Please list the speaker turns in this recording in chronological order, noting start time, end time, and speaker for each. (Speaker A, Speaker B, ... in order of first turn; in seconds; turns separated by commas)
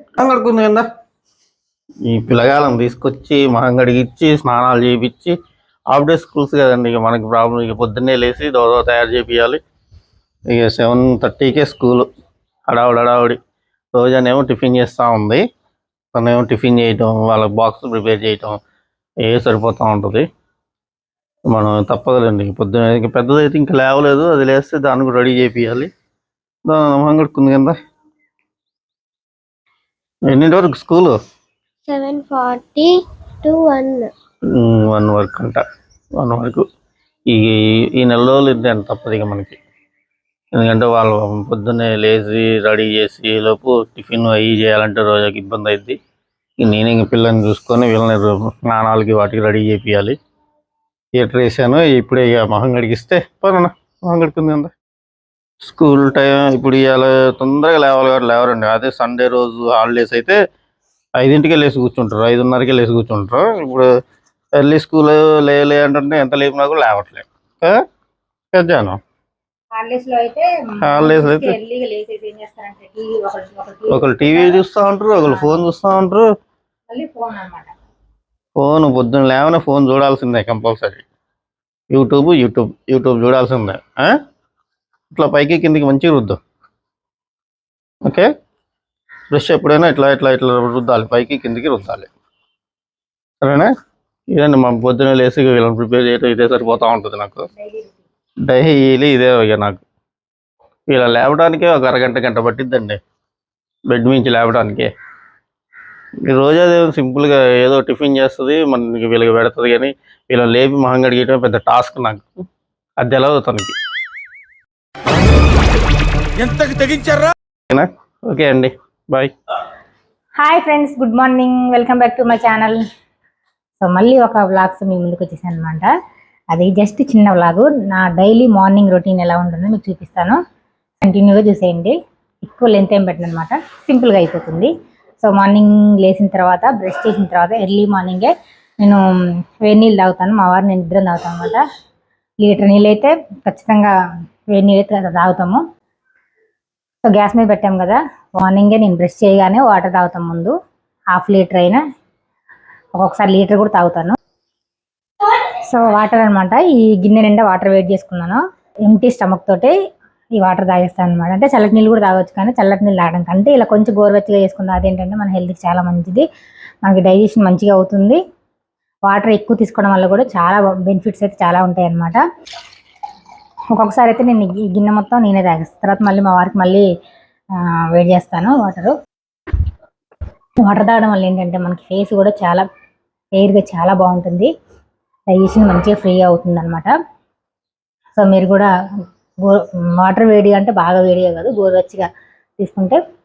Speaker A: 0.2-0.8, Speaker A: 2.0-5.3, Speaker A: 5.9-9.6, Speaker A: 10.5-12.1, Speaker A: 12.7-13.4, Speaker A: 13.9-15.4, Speaker A: 16.1-18.6, Speaker A: 19.2-20.2, Speaker A: 21.5-25.9, Speaker A: 26.7-27.8, Speaker A: 30.3-31.1, Speaker B: 31.9-34.1, Speaker A: 34.5-35.6, Speaker A: 36.2-36.6, Speaker A: 37.3-39.6, Speaker A: 40.5-46.0, Speaker A: 46.6-50.1, Speaker A: 51.2-54.7, Speaker A: 55.6-60.4, Speaker A: 61.2-63.9, Speaker A: 64.5-67.8, Speaker A: 68.5-69.0, Speaker C: 69.8-74.6, Speaker A: 70.8-71.5, Speaker A: 73.9-76.3, Speaker C: 75.2-75.6, Speaker C: 76.9-77.7, Speaker A: 78.6-81.0, Speaker A: 81.9-84.2, Speaker A: 85.1-86.4, Speaker A: 89.3-92.1, Speaker A: 93.4-93.7, Speaker A: 94.3-97.5, Speaker A: 98.5-99.8, Speaker A: 100.9-103.0, Speaker A: 103.9-104.9, Speaker A: 106.3-112.3, Speaker A: 113.0-113.7, Speaker A: 116.4-119.3, Speaker C: 120.4-122.8, Speaker C: 123.8-125.9, Speaker C: 126.5-130.4, Speaker C: 131.0-134.7, Speaker C: 135.2-139.0, Speaker C: 139.6-141.6, Speaker C: 142.4-143.9, Speaker C: 144.5-145.6, Speaker C: 147.0-150.5, Speaker C: 151.1-151.8, Speaker C: 153.0-154.2, Speaker C: 155.2-159.7, Speaker C: 160.3-166.2, Speaker C: 166.8-168.2, Speaker C: 169.1-172.2, Speaker C: 173.7-176.8, Speaker C: 177.6-178.9, Speaker C: 180.6-182.7, Speaker C: 183.3-184.5, Speaker C: 185.3-186.9, Speaker C: 188.2-188.7, Speaker C: 189.4-192.1, Speaker C: 192.6-193.0